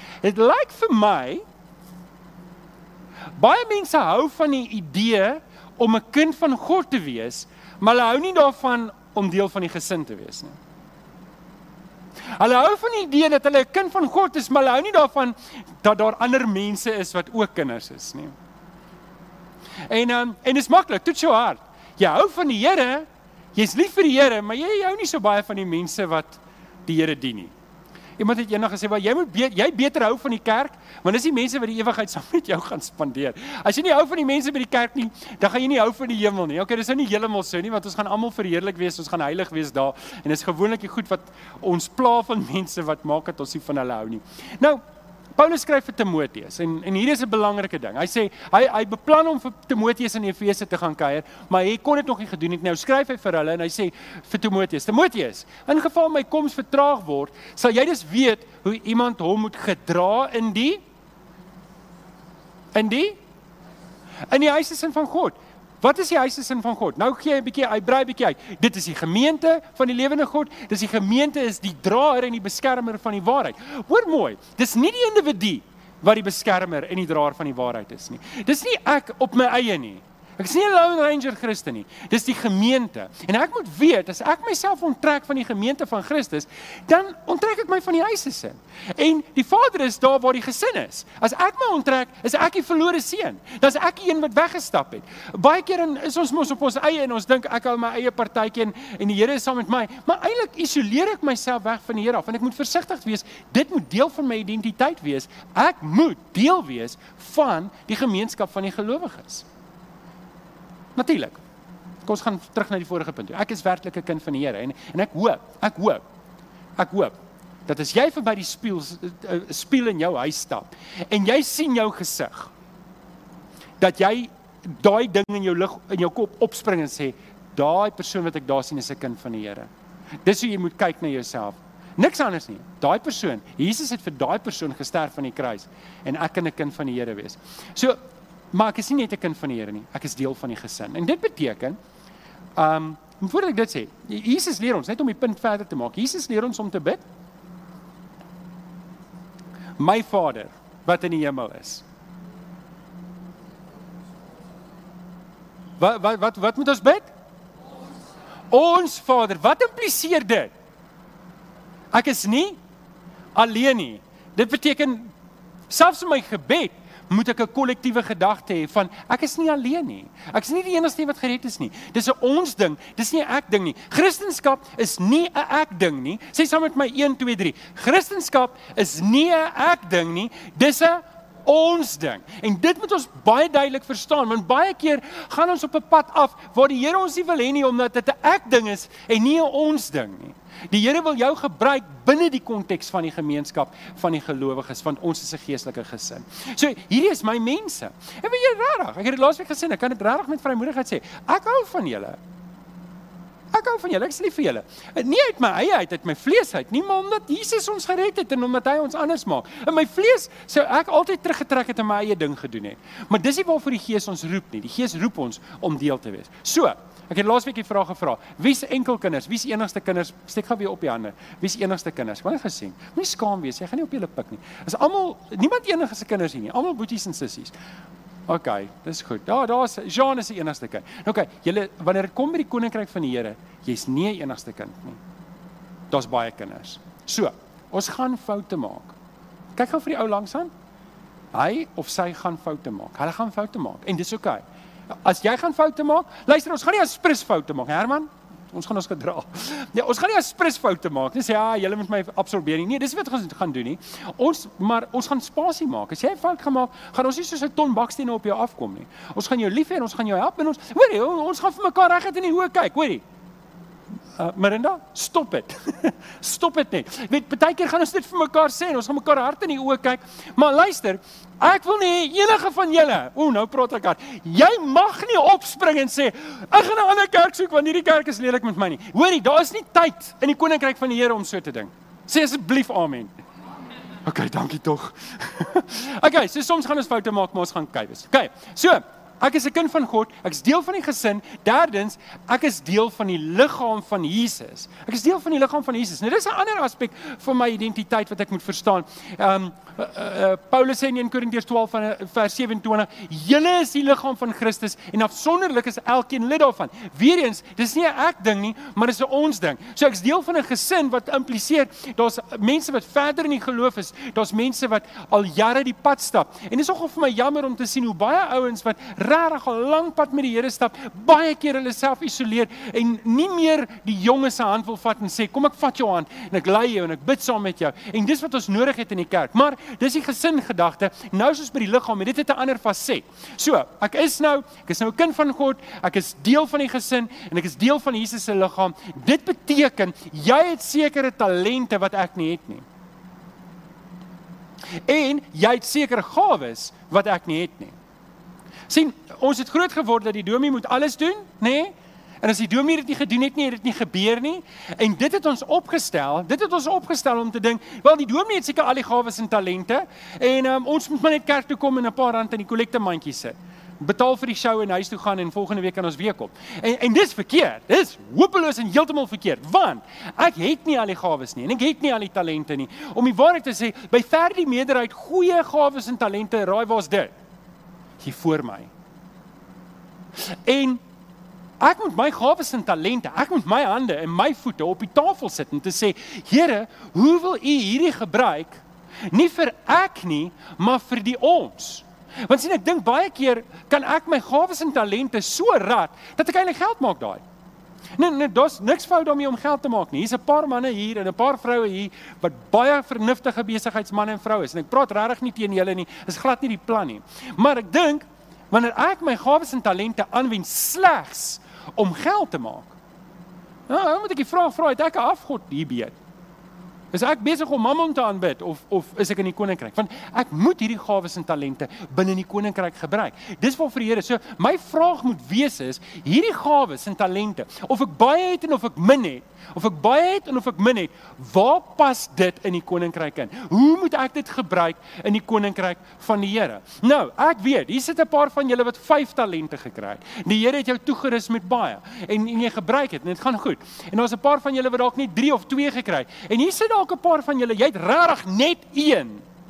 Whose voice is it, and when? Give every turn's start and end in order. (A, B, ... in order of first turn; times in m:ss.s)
0:00.2-0:01.4 A
0:03.4-0:10.6 A
0:12.4-0:18.3 A
0:19.9-0:27.5 A
0:28.2-0:44.8 A
0:45.4-1:00.8 A
1:02.7-1:03.2 A
1:04.3-1:49.4 A
1:51.0-1:51.4 A
1:52.0-1:56.0 A
1:56.8-1:57.1 A
1:57.7-2:02.5 A
2:03.8-2:09.7 A
2:10.2-2:18.0 A
2:18.5-2:21.8 A
2:22.6-2:27.0 A
2:29.8-2:31.8 A
2:35.8-2:37.1 A
2:38.5-2:40.5 A
2:41.9-2:42.6 A
2:43.3-2:45.1 A
2:45.7-3:22.2 A
3:23.5-3:47.5 A
3:48.3-3:55.0 A
3:55.9-3:58.9 A
3:59.5-4:00.5 A
4:01.3-4:04.4 A
4:05.0-4:23.0 A
4:24.2-4:43.1 A
4:44.0-5:42.6 A
5:44.9-5:47.7 A
5:48.7-6:17.1 A
6:18.0-6:18.7 A
6:20.3-6:20.8 A
6:21.6-6:37.2 A
6:38.0-6:52.7 A
6:53.7-6:56.0 A
6:56.9-7:29.2 A